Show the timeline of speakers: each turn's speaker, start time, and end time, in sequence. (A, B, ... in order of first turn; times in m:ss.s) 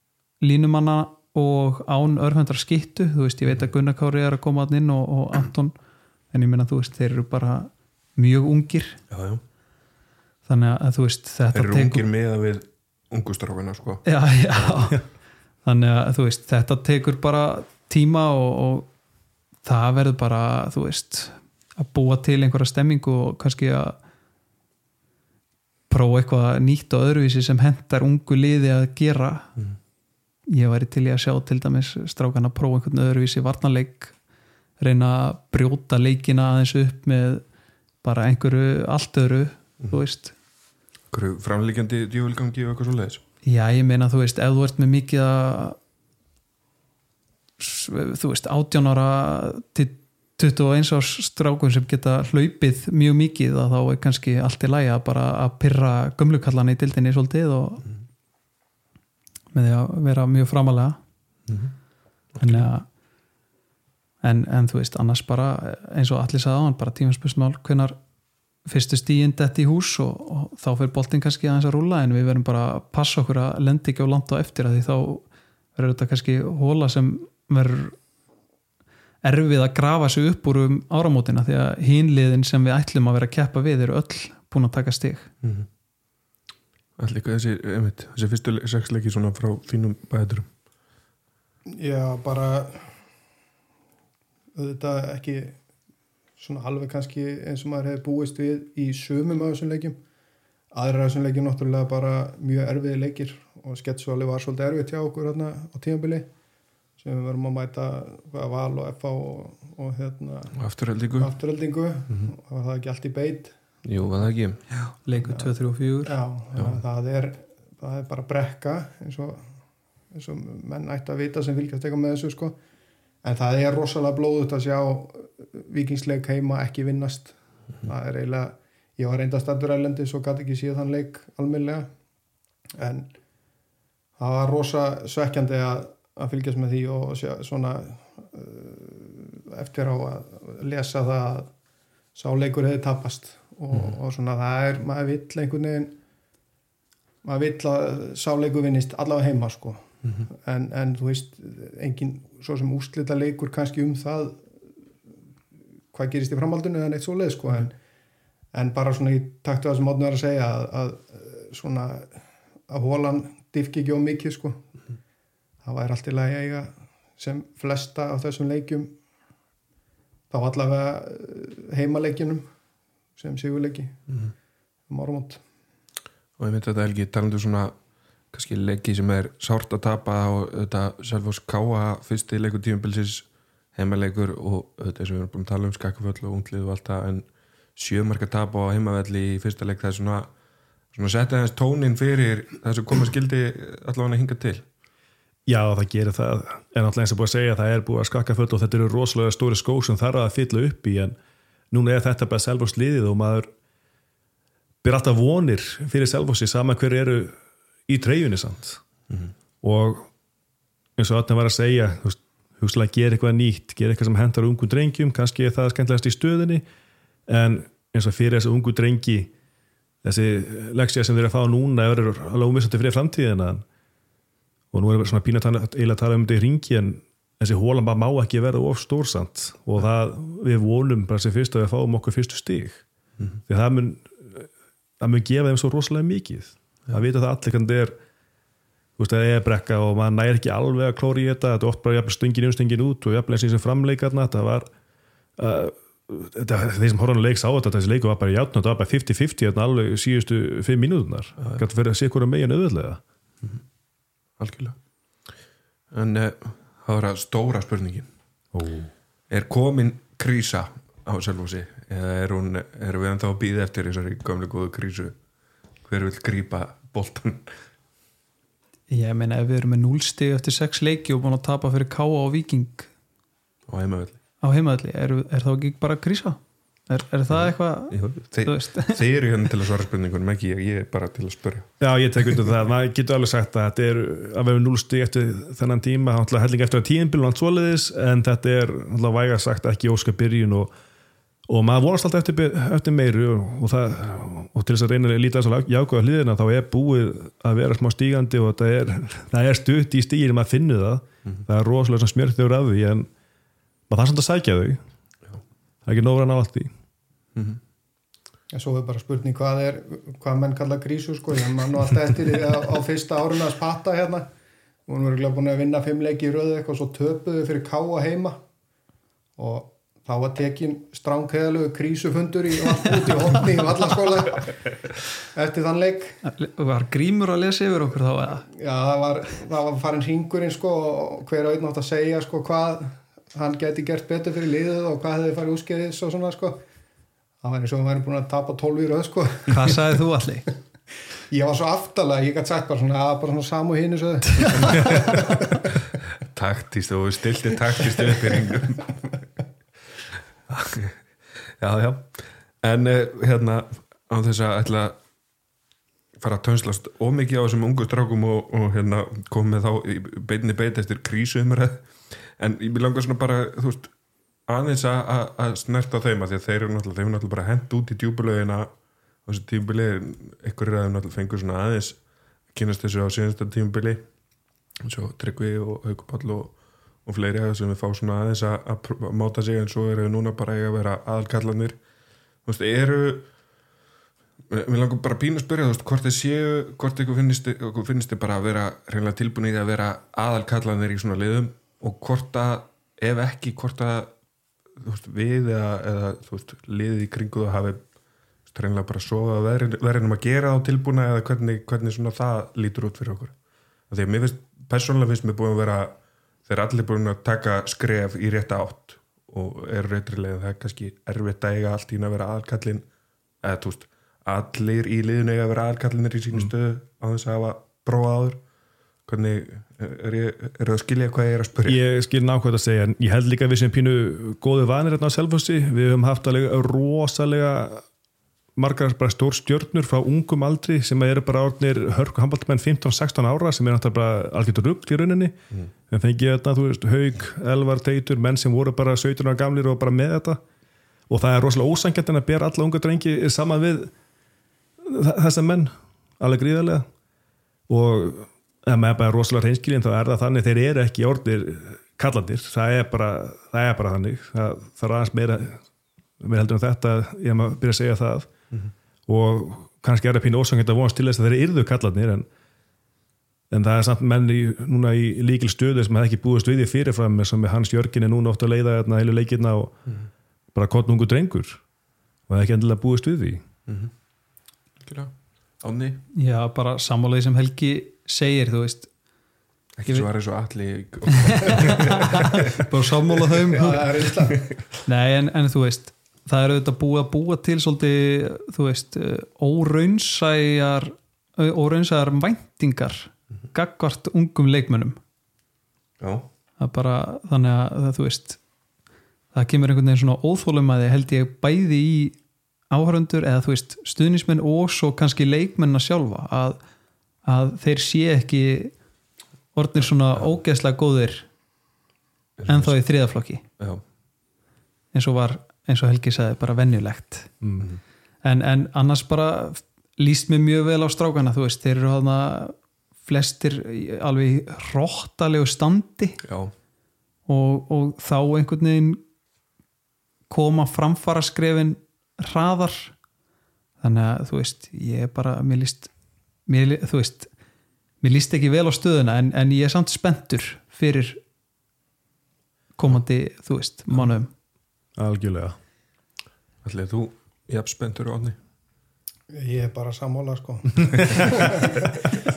0:00.4-0:05.7 A
0:06.3-0:09.0 A
0:09.1-0:09.4 B
0:10.4-0:12.1 A
0:11.5-0:14.0 B
0:14.0-0:15.0 A
0:15.6-0:18.9 A
0:19.6-0:24.0 A
0:25.9-0:29.5 A
0:30.5-0:34.1 A
0:34.8-0:37.4 A
0:38.0-0:40.3 A
0:41.1-0:43.2 B
0:43.4-0:45.8 A
0:47.6-0:57.8 A
0:59.5-1:01.0 A
1:01.5-1:01.7 B
1:02.4-1:02.7 B
1:02.4-1:02.8 A
1:04.2-1:08.0 A
1:08.6-1:15.2 A
1:15.8-1:18.0 A
1:19.2-1:25.3 A
1:27.0-1:30.5 B
1:31.7-1:33.0 C
1:34.6-1:35.6 C
1:36.4-1:40.0 C
1:40.7-1:46.3 C
1:47.0-1:50.6 C
1:50.5-1:51.3 B
1:51.2-1:53.5 C
1:53.8-1:54.8 B
1:55.0-1:56.2 A
1:55.2-1:55.5 C
1:56.0-1:59.5 C
2:00.1-2:02.6 C
2:03.2-2:11.9 C
2:12.8-2:13.1 C
2:14.2-2:21.5 C
2:22.1-2:26.0 C
2:27.2-2:34.5 C
2:35.9-2:37.8 C
2:38.5-2:44.7 C
2:45.6-2:49.0 C
2:50.3-2:52.5 C
2:53.2-2:54.0 C
2:54.9-2:55.4 C
2:56.4-2:57.7 B
2:58.3-3:10.3 B
3:10.9-3:14.6 B
3:15.4-3:21.2 D
3:21.7-3:23.5 D
3:24.8-3:27.4 D
3:27.9-3:28.8 D
3:29.6-3:30.1 D
3:31.0-3:36.6 D
3:37.3-3:39.3 D
3:40.0-3:43.6 D
3:44.7-3:52.8 D
3:53.5-3:54.5 D
3:55.0-3:58.0 D
3:59.0-4:04.7 D
4:05.4-4:13.0 D
4:14.4-4:14.8 B
4:15.9-4:18.1 B
4:18.5-4:18.9 D
4:19.3-4:25.2 B
4:25.8-4:27.5 B
4:28.9-4:32.9 A
4:33.7-4:34.2 B
4:34.4-4:39.0 A
4:37.3-4:41.7 B
4:41.8-4:50.7 D
4:51.5-5:03.1 D
5:03.9-5:04.8 D
5:05.8-5:06.7 D
5:07.3-5:07.6 B
5:08.5-5:14.3 C
5:14.9-5:18.4 C
5:19.4-5:24.6 C
5:25.3-5:26.2 C
5:26.2-5:28.5 A
5:28.5-5:36.6 C
5:37.4-5:39.8 C
5:39.5-5:40.5 A
5:41.3-5:45.6 C
5:46.3-5:49.0 B
5:50.5-5:51.0 B
5:51.6-5:55.0 B
5:56.2-6:03.9 B
6:04.5-6:08.7 B
6:09.2-6:12.0 B
6:12.5-6:14.0 B
6:14.8-6:16.5 B
6:17.0-6:21.8 B
6:22.4-6:23.3 B
6:24.5-6:34.1 B
6:34.8-6:37.8 B
6:38.5-6:43.3 B
6:43.9-6:52.8 B
6:53.4-6:58.4 B
6:59.0-7:01.8 B
7:01.6-7:07.8 D
7:08.6-7:15.3 D
7:15.9-7:20.4 D
7:21.1-7:23.9 D
7:24.8-7:26.9 D
7:27.7-7:35.6 D
7:36.2-7:38.3 D
7:39.1-7:42.3 D
7:43.5-7:49.8 D
7:50.5-7:51.6 D
7:52.3-7:53.4 D
7:54.8-7:56.0 B
7:56.2-7:58.9 A
7:59.8-8:04.6 B
8:01.3-8:04.1 A
8:03.5-8:04.4 C
8:04.8-8:15.0 A
8:16.0-8:16.3 B
8:16.6-8:18.4 A
8:19.3-8:22.2 A
8:22.7-8:26.6 A
8:27.2-8:28.7 A
8:29.5-8:31.3 A
8:32.4-8:32.7 B
8:32.5-8:33.4 A
8:34.9-8:37.3 A
8:37.4-8:37.7 D
8:38.2-8:46.2 A
8:46.2-8:46.5 B
8:47.3-8:49.0 A
8:50.3-8:52.9 A
8:53.8-8:55.9 A
8:56.5-8:57.3 A
8:58.0-9:01.2 A
9:02.8-9:04.3 A
9:05.0-9:05.6 D
9:06.6-9:08.4 B
9:09.3-9:11.9 C